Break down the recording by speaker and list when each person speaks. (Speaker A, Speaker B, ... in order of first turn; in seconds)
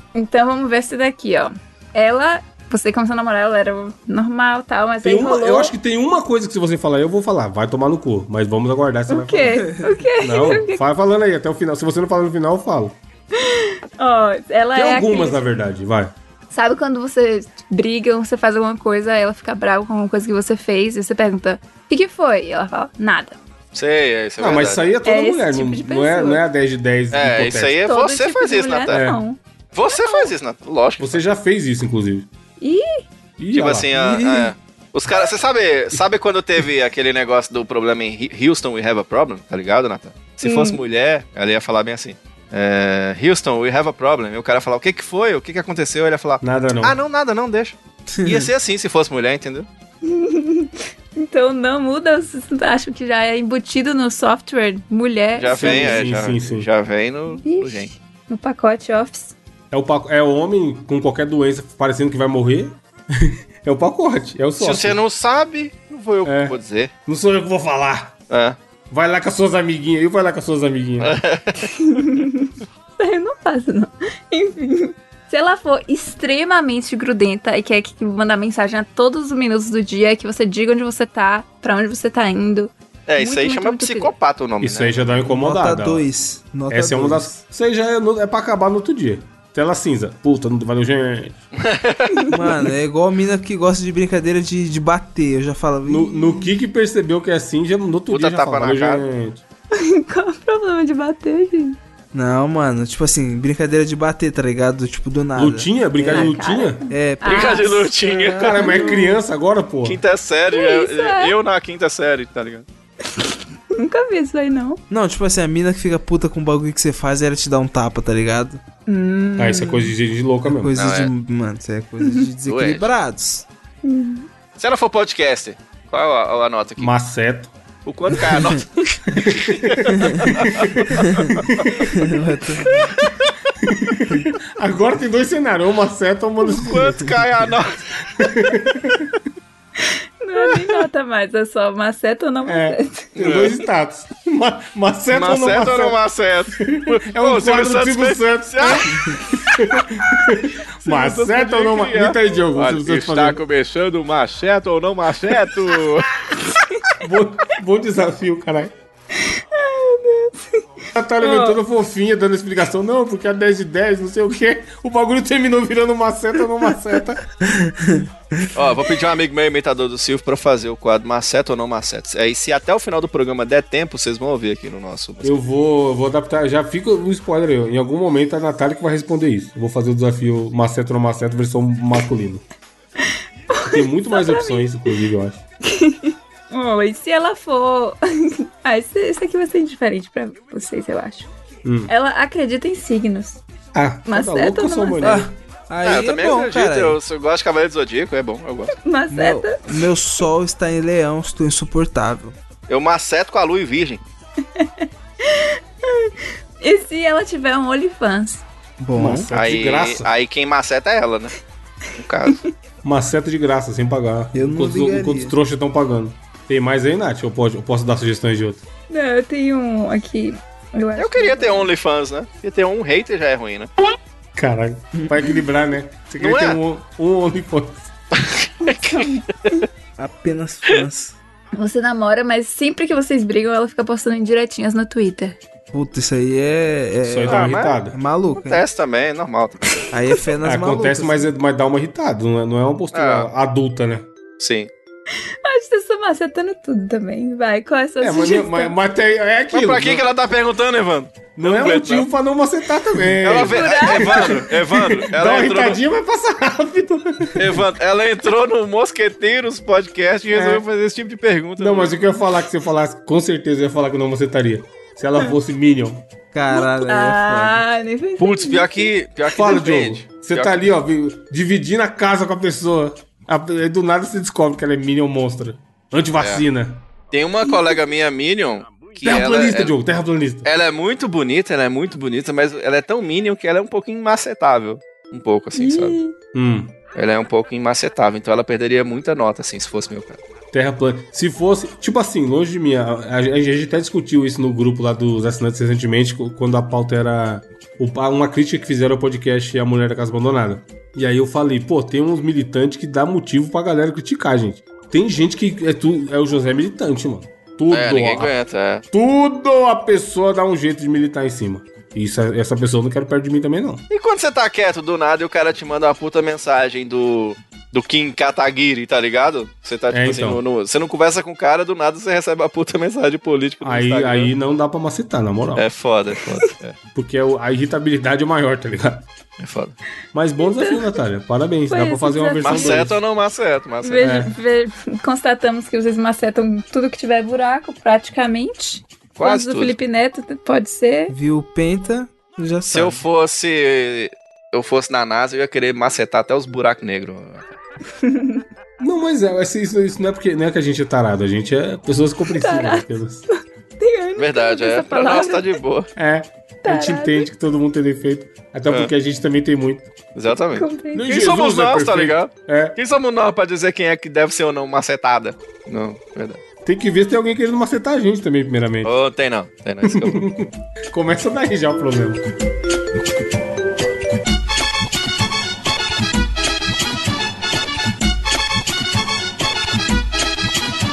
Speaker A: 0.1-5.7, 9.1-10.8, 13.3-15.4, 16.5-23.4, 25.0-26.4, 27.8-29.4, 29.9-30.3, 32.6-33.0, 40.4-40.8, 50.0-56.0, 57.3-59.4, 71.6-84.1, 99.7-101.8, 106.1-107.9, 108.7-109.1, 110.5-111.3, 113.1-114.8, 118.9-119.9, 122.0-122.3, 123.8-124.3, 139.8-143.4, 159.2-160.6, 161.2-161.6, 183.0-185.0, 185.6-191.3, 191.9-193.4, 194.1-195.3, 198.8-199.8, 204.4-208.4, 218.9-221.7, 228.6-229.7, 231.5-235.4, 245.2-248.8, 253.4-254.4, 266.5-268.9, 330.4-331.0, 331.7-332.9, 333.8-341.1, 348.0-348.4, 352.3-355.5, 356.6-357.3, 360.6-361.1
Speaker B: 5.0-13.0, 14.7-16.1, 24.4-27.8, 28.9-29.2, 31.0-32.3, 33.4-33.9, 46.4-47.0, 55.5-56.7, 59.7-65.0, 66.2-68.2, 68.9-71.2, 84.6-86.1, 86.7-91.4, 95.8-99.4, 105.3-106.8, 108.3-110.0, 119.4-120.8, 126.8-127.5, 129.2-131.8, 133.6-137.2, 138.1-139.1, 142.5-146.0, 146.6-153.4, 157.0-158.7, 160.9-167.2, 175.2-182.4, 183.7-185.4, 191.6-191.9, 193.7-195.3, 208.9-210.1, 212.8-218.6, 224.3-227.9, 237.0-238.0, 240.4-244.1, 248.0-250.1, 251.4-257.6, 260.3-260.6, 261.6-266.1, 269.3-276.9, 279.0-280.5, 285.6-286.8, 290.5-308.3, 308.9-313.8, 319.9-320.4, 323.6-325.7, 326.9-329.1, 330.1-333.0, 334.0-334.3, 348.8-353.2, 356.0-359.9, 360.9-362.8, 366.6-368.9, 369.9-372.2
Speaker C: 23.7-24.9, 27.1-29.1, 29.7-31.2, 33.5-49.7, 55.4-57.9, 64.6-66.9, 68.3-68.6, 71.0-71.7, 83.1-85.0, 91.6-92.2, 98.1-99.0, 107.2-108.9, 109.8-112.7, 120.8-121.1, 122.5-122.9, 124.6-126.9, 127.9-130.9, 136.5-137.8, 143.2-143.6, 145.1-149.2, 150.8-156.2, 168.5-175.4, 195.8-198.8, 202.7-204.0, 209.3-211.3, 212.0-212.4, 221.0-223.7, 226.2-226.6, 228.2-229.1, 237.3-237.8, 238.3-239.7, 242.9-243.3, 244.4-244.7, 249.5-252.1, 253.2-255.8, 257.4-262.0, 268.2-270.7, 276.2-276.4, 277.1-279.7, 280.4-286.0, 286.9-290.2, 307.7-308.8, 313.9-324.3, 325.6-326.8, 329.4-329.8, 332.4-334.1, 339.2-339.8, 342.7-347.5, 354.2-355.9, 360.1-366.4, 368.8-370.3
Speaker D: 34.0-34.5, 48.1-48.5, 85.3-87.4, 92.3-96.2, 102.1-106.3, 106.9-108.9, 114.9-118.6, 120.5-123.5, 130.0-130.3, 131.0-131.3, 131.9-132.9, 167.4-168.5, 195.0-197.0, 199.1-202.4, 208.8-209.3, 214.3-215.4, 230.0-231.2, 235.7-238.7, 239.9-241.3, 266.3-267.6, 341.1-343.0